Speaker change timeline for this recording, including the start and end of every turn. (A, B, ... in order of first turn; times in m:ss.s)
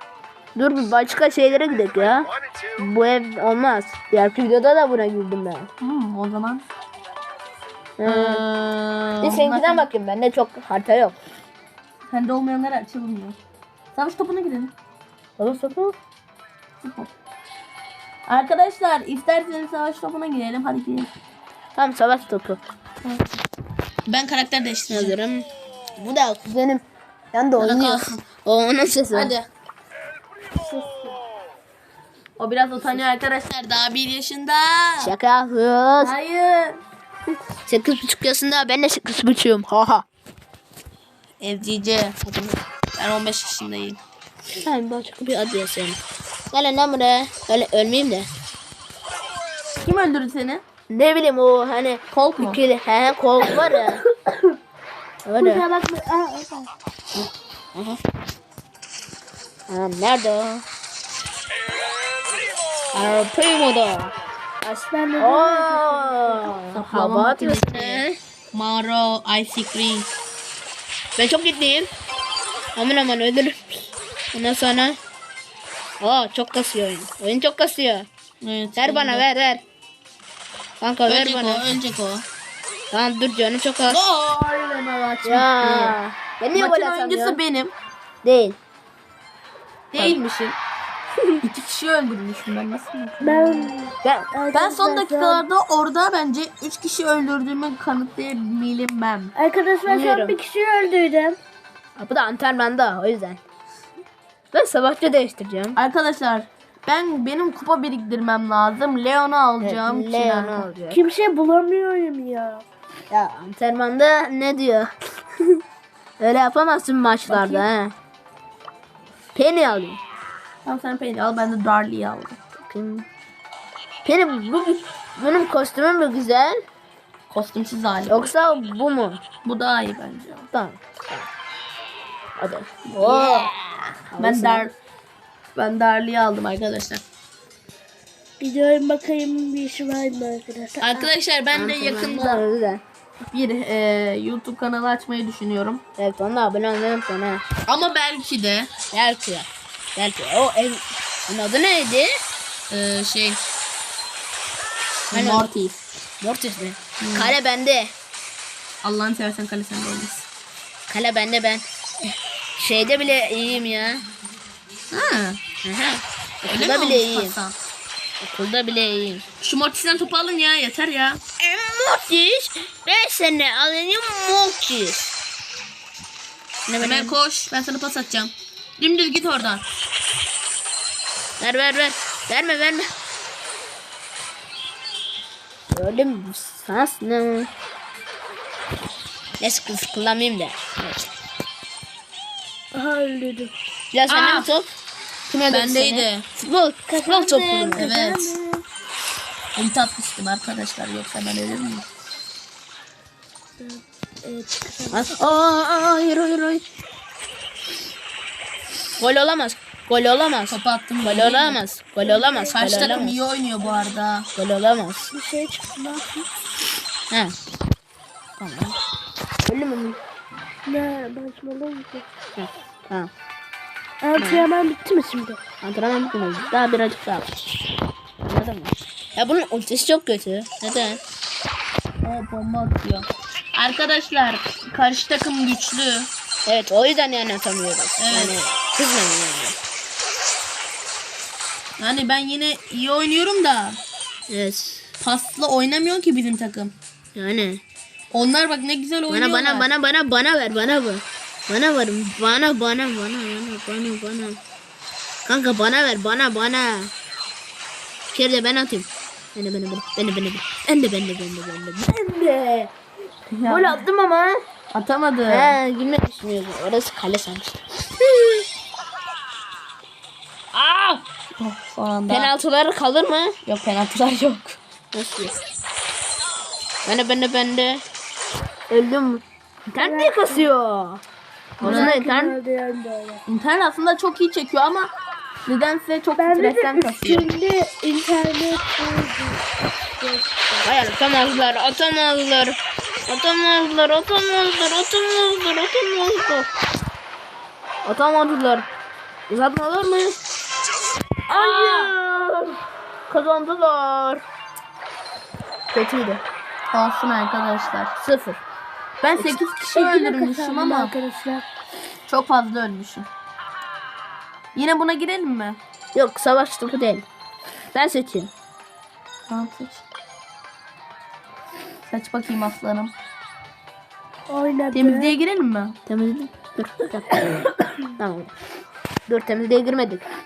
0:00.6-0:05.7 A
0:05.8-0:06.6 B
0:08.0-0:08.4 A
0:08.0-0:09.9 B
0:09.2-0:11.2 A
0:12.1-0:13.4 B
0:13.9-0:14.7 B
0:15.4-0:16.0 A
0:16.8-0:17.1 B
0:18.3-0:21.1 B
0:21.7-0:22.6 A
0:24.1-0:25.2 B
0:24.9-0:29.3 A
0:27.6-0:28.2 B
0:29.1-0:29.5 B
0:30.7-0:31.0 C
0:32.4-0:35.1 B
0:35.0-0:36.2 A
0:36.0-0:36.8 B
0:37.7-0:40.0 A
0:41.4-0:42.2 B
0:42.2-0:42.6 A
0:42.9-0:44.0 B
0:44.5-0:46.0 A
0:46.5-0:48.3 A
0:49.8-0:50.6 B
0:50.9-0:54.0 A
0:52.1-0:52.6 B
0:54.3-0:54.5 C
0:55.2-0:55.6 A
0:55.4-0:56.7 C
0:57.1-0:58.0 A
0:59.7-1:00.6 A
1:02.9-1:08.2 A
1:04.9-1:06.5 C
1:06.7-1:10.1 B
1:11.2-1:11.9 A
1:12.7-1:13.6 A
1:14.3-1:15.0 A
1:16.0-1:18.1 A
1:18.4-1:19.2 B
1:18.8-1:19.6 A
1:20.8-1:21.7 A
1:21.1-1:22.2 B
1:22.9-1:24.0 A
1:23.8-1:26.0 B
1:25.2-1:27.4 A
1:26.5-1:27.7 B
1:28.2-1:28.6 A
1:29.9-1:30.6 B
1:31.4-1:33.7 B
1:33.2-1:35.4 C
1:34.0-1:34.3 A
1:34.5-1:39.3 B
1:39.4-1:41.4 C
1:39.8-1:40.4 A
1:42.0-1:43.4 A
1:44.5-1:45.8 A
1:45.7-1:50.7 B
1:49.6-1:51.0 A
1:50.9-1:52.6 C
1:53.1-1:54.9 A
1:56.2-1:57.9 A
1:57.3-1:57.6 B
1:59.3-2:00.0 A
2:00.6-2:02.4 B
2:02.6-2:03.0 A
2:04.0-2:06.6 A
2:07.3-2:08.3 B
2:08.1-2:09.2 A
2:09.4-2:10.5 B
2:10.5-2:11.3 A
2:12.4-2:13.5 A
2:12.8-2:14.7 B
2:14.1-2:14.7 A
2:15.5-2:17.0 B
2:18.4-2:21.1 C
2:20.8-2:22.4 B
2:21.5-2:22.8 A
2:23.2-2:25.8 B
2:26.0-2:27.4 A
2:27.6-2:28.7 B
2:28.9-2:32.1 A
2:32.7-2:33.4 B
2:35.1-2:35.8 B
2:35.1-2:35.5 A
2:36.2-2:37.9 A
2:37.0-2:37.3 B
2:38.8-2:40.2 B
2:40.9-2:41.6 A
2:42.6-2:44.0 A
2:44.9-2:45.4 B
2:45.6-2:47.4 A
2:46.4-2:47.6 B
2:48.2-2:49.2 A
2:49.4-2:51.2 B
2:51.4-2:55.1 A
2:56.6-2:57.1 A
2:56.8-2:59.6 B
3:01.4-3:02.9 A
3:05.7-3:07.5 A
3:09.4-3:11.1 A
3:12.7-3:13.5 C
3:13.9-3:14.7 A
3:14.1-3:14.5 B
3:15.3-3:17.9 A
3:15.5-3:16.2 B
3:16.9-3:18.6 C
3:17.7-3:18.3 B
3:19.6-3:21.8 B
3:23.6-3:25.4 C
3:24.9-3:26.6 A
3:29.0-3:33.2 A
3:30.5-3:31.6 B
3:32.0-3:33.0 C
3:32.5-3:34.3 B
3:33.7-3:33.9 C
3:34.3-3:35.1 A
3:35.1-3:36.3 C
3:37.1-3:37.4 A
3:38.4-3:38.8 A
3:39.4-3:40.0 A
3:40.6-3:42.0 C
3:42.4-3:43.1 A
3:44.0-3:45.4 C
3:44.1-3:44.5 A
3:45.6-3:47.4 A
3:48.2-3:51.0 A
3:52.0-3:56.1 B
3:56.4-3:59.6 A
3:58.0-3:58.4 B
4:01.8-4:03.8 B
4:04.3-4:04.9 A
4:05.0-4:06.7 B
4:07.1-4:07.6 A
4:08.1-4:09.7 B
4:09.1-4:14.4 A
4:15.2-4:16.9 A
4:18.1-4:22.7 A
4:23.3-4:23.8 B
4:23.5-4:24.4 A
4:24.7-4:25.6 B
4:25.3-4:28.4 A
4:30.5-4:31.0 A
4:31.4-4:32.3 B
4:32.1-4:33.4 A
4:33.4-4:34.6 B
4:34.9-4:35.4 A
4:36.8-4:37.8 A
4:38.7-4:41.0 A
4:39.8-4:40.5 C
4:41.6-4:42.4 A
4:41.6-4:42.0 B
4:41.6-4:43.2 C
4:43.3-4:44.9 B
4:45.4-4:47.3 B
4:46.2-4:50.7 C
4:50.6-4:56.5 A
4:57.8-4:58.7 A
4:59.3-5:00.2 A
5:01.3-5:02.5 A
5:01.4-5:01.9 C
5:03.1-5:04.2 A
5:05.7-5:06.2 A
5:06.7-5:07.9 B
5:08.0-5:08.4 A
5:09.0-5:10.9 B
5:09.1-5:09.4 A
5:09.7-5:11.4 C
5:12.1-5:13.1 B
5:14.5-5:15.6 B
5:15.9-5:17.0 A
5:17.7-5:18.3 A
5:19.3-5:19.8 B
5:21.9-5:22.9 B
5:24.3-5:25.1 C
5:24.7-5:25.8 B
5:25.9-5:28.3 A
5:29.1-5:30.0 A